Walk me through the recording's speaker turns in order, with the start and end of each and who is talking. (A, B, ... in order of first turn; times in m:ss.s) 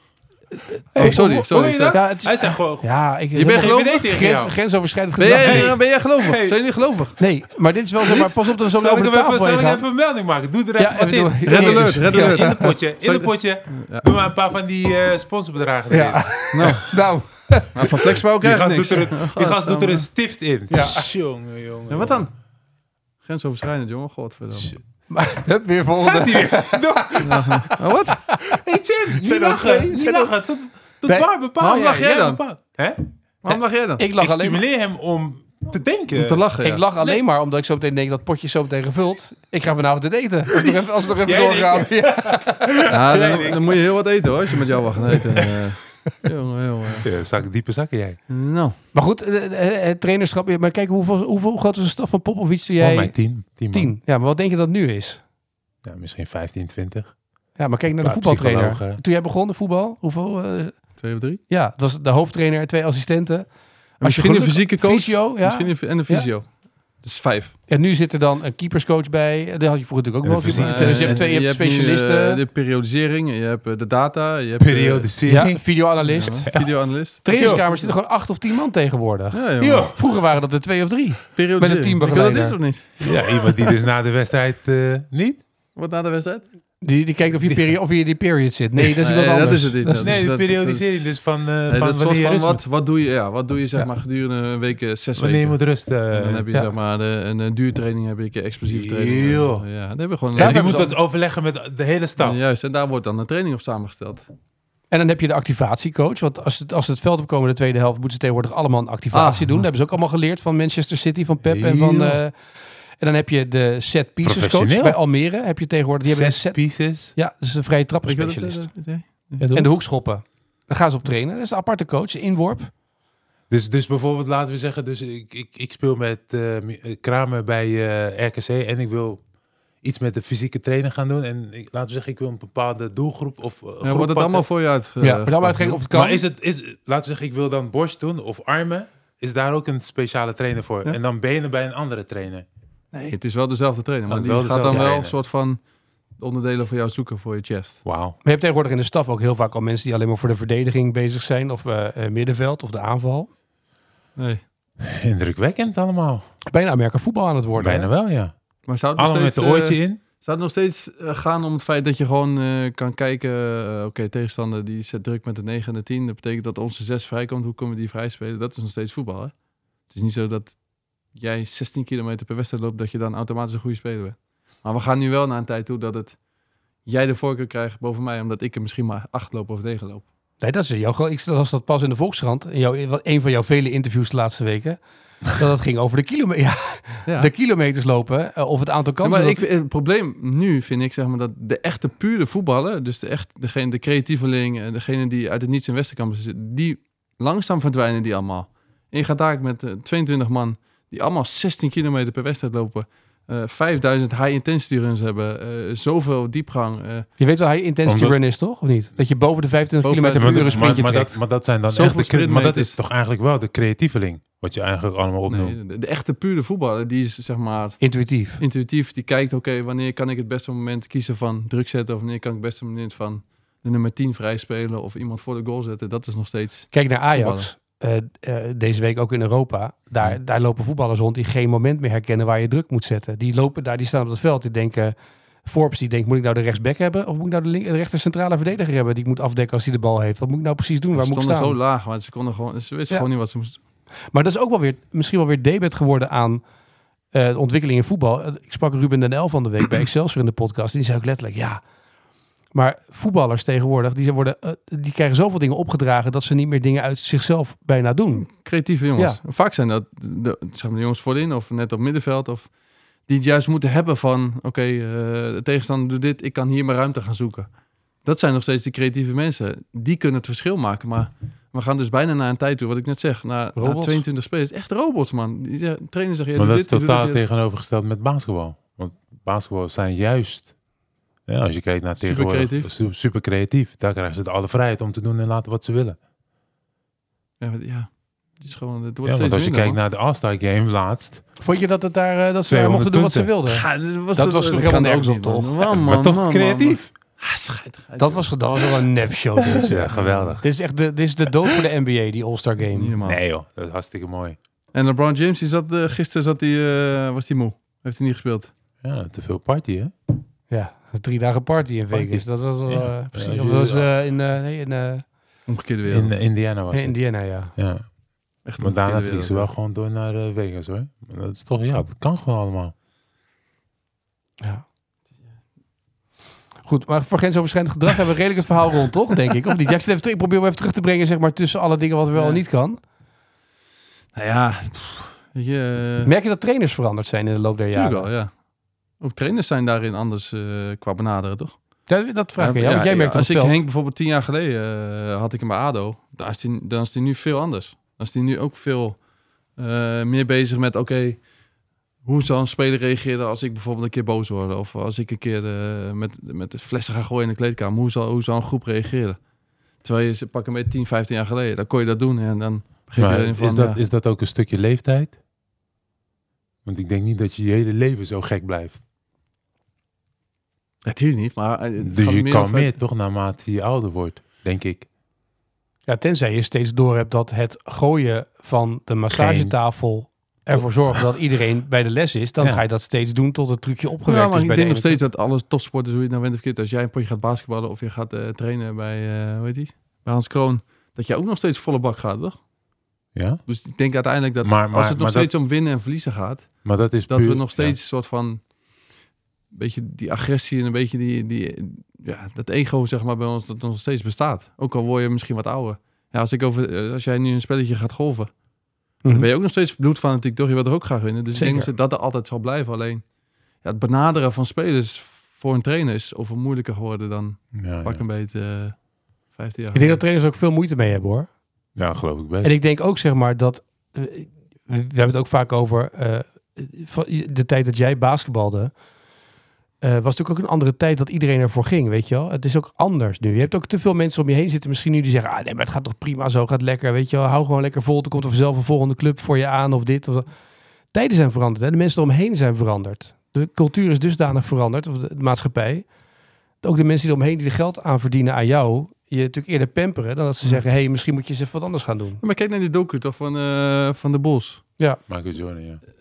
0:00.7-0:05.8 A
0:00.9-0:04.6 B
0:01.0-0:02.0 C
0:03.4-0:04.0 C
0:05.2-0:07.2 C
0:05.4-0:06.6 B
0:07.2-0:09.9 A
0:08.1-0:16.8 B
0:10.8-0:12.7 A
0:11.5-0:14.1 C
0:15.9-0:18.1 A
0:16.5-0:17.0 C
0:17.7-0:20.1 C
0:18.4-0:22.3 B
0:20.7-0:21.1 A
0:21.9-0:22.3 C
0:23.2-0:24.8 C
0:25.1-0:27.8 A
0:26.0-0:27.7 B
0:27.2-0:28.2 C
0:28.3-0:28.6 A
0:28.4-0:33.0 B
0:29.1-0:30.4 A
0:31.6-0:32.4 C
0:33.4-0:34.0 C
0:34.0-0:34.6 A
0:34.2-0:36.5 B
0:36.1-0:36.8 C
0:36.6-0:43.0 A
0:40.6-0:43.8 B
0:42.9-0:47.1 C
0:45.1-0:45.6 B
0:47.0-0:48.2 B
0:48.3-0:48.8 C
0:48.9-0:53.2 A
0:52.8-0:53.9 B
0:53.7-0:55.2 A
0:55.8-0:57.2 B
0:57.6-1:00.8 A
0:58.0-0:59.0 B
1:01.0-1:01.4 C
1:01.5-1:06.3 A
1:04.0-1:07.6 C
1:07.7-1:12.4 A
1:10.2-1:11.3 B
1:10.6-1:15.4 C
1:14.6-1:15.9 B
1:15.3-1:16.5 A
1:16.0-1:17.9 C
1:17.2-1:22.6 A
1:17.4-1:17.6 B
1:19.3-1:19.9 C
1:19.6-1:20.0 B
1:21.4-1:23.2 C
1:23.0-1:25.4 B
1:25.8-1:26.4 C
1:26.8-1:30.3 A
1:29.0-1:31.1 C
1:30.0-1:32.6 B
1:31.7-1:40.9 C
1:35.2-1:36.5 B
1:38.7-1:39.6 B
1:40.4-1:42.4 B
1:40.4-1:40.9 A
1:42.2-1:44.3 C
1:44.9-1:52.4 A
1:49.1-1:49.6 C
1:51.4-1:52.2 B
1:53.0-1:58.7 A
1:54.2-1:55.0 B
1:56.1-1:57.1 B
1:58.1-1:59.6 C
1:59.5-2:02.7 A
2:03.5-2:09.2 B
2:09.8-2:14.5 B
2:13.8-2:15.8 C
2:15.0-2:16.2 A
2:15.9-2:22.5 B
2:22.9-2:25.6 C
2:24.1-2:25.1 B
2:26.2-2:27.8 C
2:27.8-2:28.2 B
2:28.2-2:33.3 A
2:34.2-2:34.4 C
2:34.8-2:36.2 B
2:36.5-2:37.9 A
2:37.6-2:38.3 B
2:38.7-2:49.3 C
2:39.0-2:40.0 B
2:49.9-2:50.6 C
2:51.1-2:56.2 C
2:56.8-3:00.0 C
3:00.4-3:09.4 A
3:09.0-3:27.1 C
3:27.2-3:31.2 A
3:27.9-3:28.2 B
3:29.8-3:30.9 C
3:30.2-3:35.6 B
3:31.7-3:32.8 C
3:35.3-3:47.5 C
3:37.8-3:38.4 A
3:46.7-4:01.6 A
4:00.9-4:03.6 C
4:04.1-4:06.4 A
4:07.1-4:11.6 A
4:12.5-4:18.3 A
4:18.3-4:22.5 C
4:23.1-4:27.5 C
4:28.0-4:37.2 C
4:33.6-4:34.0 A
4:36.4-4:40.5 B
4:41.3-4:46.0 B
4:42.0-4:42.7 C
4:47.4-4:49.8 C
4:49.0-4:51.2 B
4:51.4-4:55.6 A
4:52.5-4:53.3 B
4:53.5-4:58.8 C
4:55.7-4:56.9 B
4:58.0-4:59.9 A
4:59.5-5:00.4 C
4:59.6-5:00.4 B
5:00.4-5:02.9 A
5:02.7-5:03.2 C
5:03.0-5:04.4 B
5:04.7-5:08.5 C
5:08.8-5:09.9 B
5:10.5-5:15.1 A
5:11.9-5:12.2 C
5:12.7-5:13.9 B
5:15.5-5:16.1 C
5:15.9-5:17.0 B
5:16.7-5:17.5 A
5:17.5-5:17.8 B
5:18.5-5:19.5 C
5:18.6-5:22.7 B
5:26.6-5:32.8 A
5:32.2-5:32.4 C
5:34.1-5:36.1 C
5:36.0-5:38.1 A
5:37.7-5:38.4 C
5:39.0-5:41.6 C
5:41.9-5:43.6 A
5:42.4-5:49.0 C
5:49.6-5:51.3 C
5:52.0-5:59.2 C
5:59.8-6:03.8 C
6:03.0-6:05.2 B
6:06.6-6:08.8 B
6:10.8-6:12.7 C
6:11.8-6:14.9 B
6:15.9-6:25.0 A
6:19.1-6:19.5 B
6:24.1-6:32.4 C
6:33.2-6:33.4 B
6:33.5-6:38.4 C
6:34.4-6:35.3 B
6:36.6-6:37.8 B
6:39.5-6:48.3 C
6:49.1-6:53.0 C
6:51.3-6:51.7 A
6:53.6-6:58.8 C
6:57.6-6:58.0 B
6:59.3-7:00.0 C
6:59.7-7:01.3 A
7:01.8-7:02.6 B
7:02.4-7:08.8 A
7:09.8-7:20.3 A
7:20.9-7:25.9 A
7:26.6-7:32.2 A
7:32.2-7:34.6 C
7:35.1-7:35.8 B